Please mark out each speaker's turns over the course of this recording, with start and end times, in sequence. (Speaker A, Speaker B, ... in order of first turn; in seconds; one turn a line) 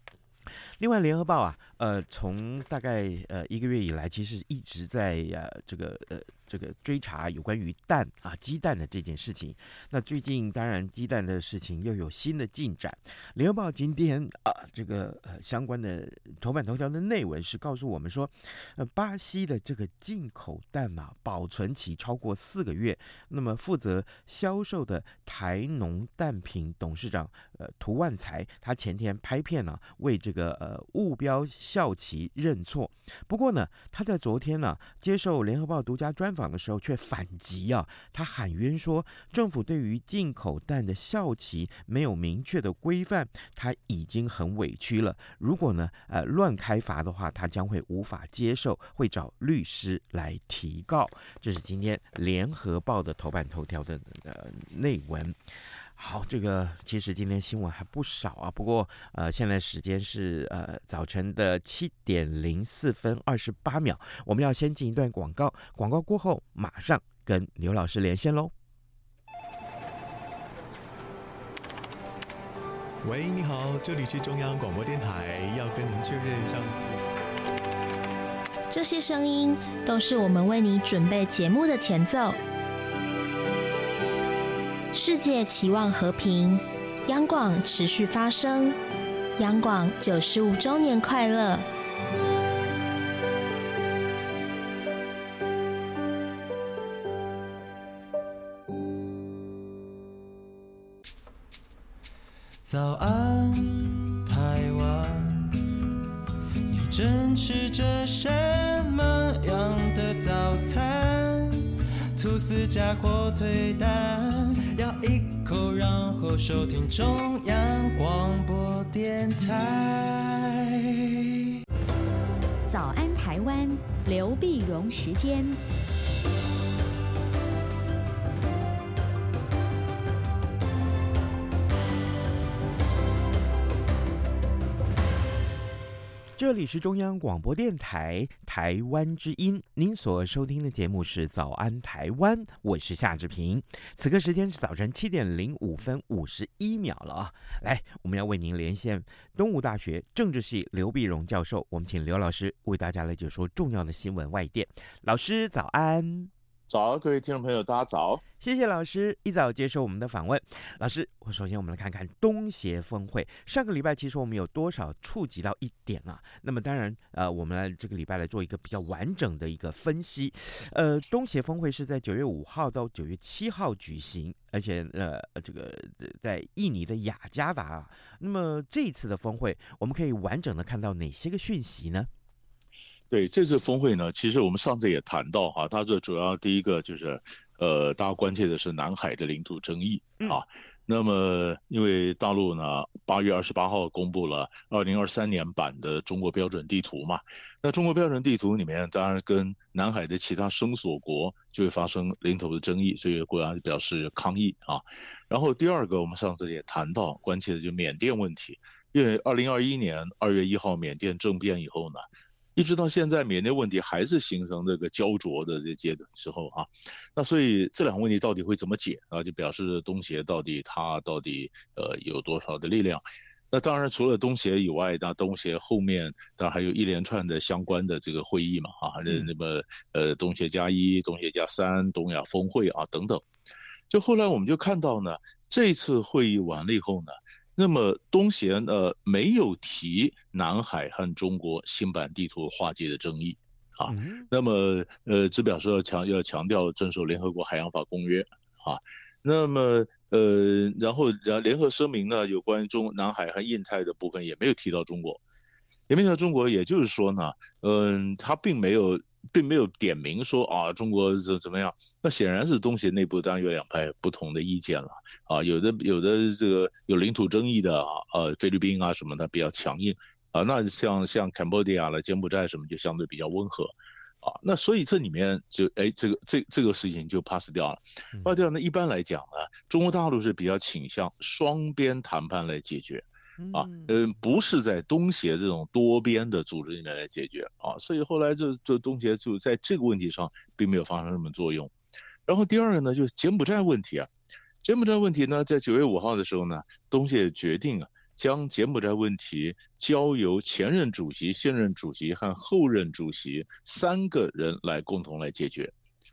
Speaker A: 0.8-55.4
Speaker A: 56.0-68.5
Speaker B: 73.0-77.0
Speaker C: 78.7-82.4
Speaker C: 84.9-88.8
Speaker C: 89.4-91.7
Speaker D: 102.6-105.5
Speaker D: 106.7-120.8
Speaker E: 122.7-125.6
Speaker A: 136.4-156.3
Speaker F: 156.7-158.2
Speaker A: 158.4-182.1
Speaker F: 183.1-233.2
Speaker F: 233.9-255.2
Speaker A: 243.8-244.3
Speaker F: 255.9-291.7
Speaker A: 278.1-278.4
Speaker A: 283.4-284.0
Speaker F: 292.2-294.1
Speaker F: 294.6-305.7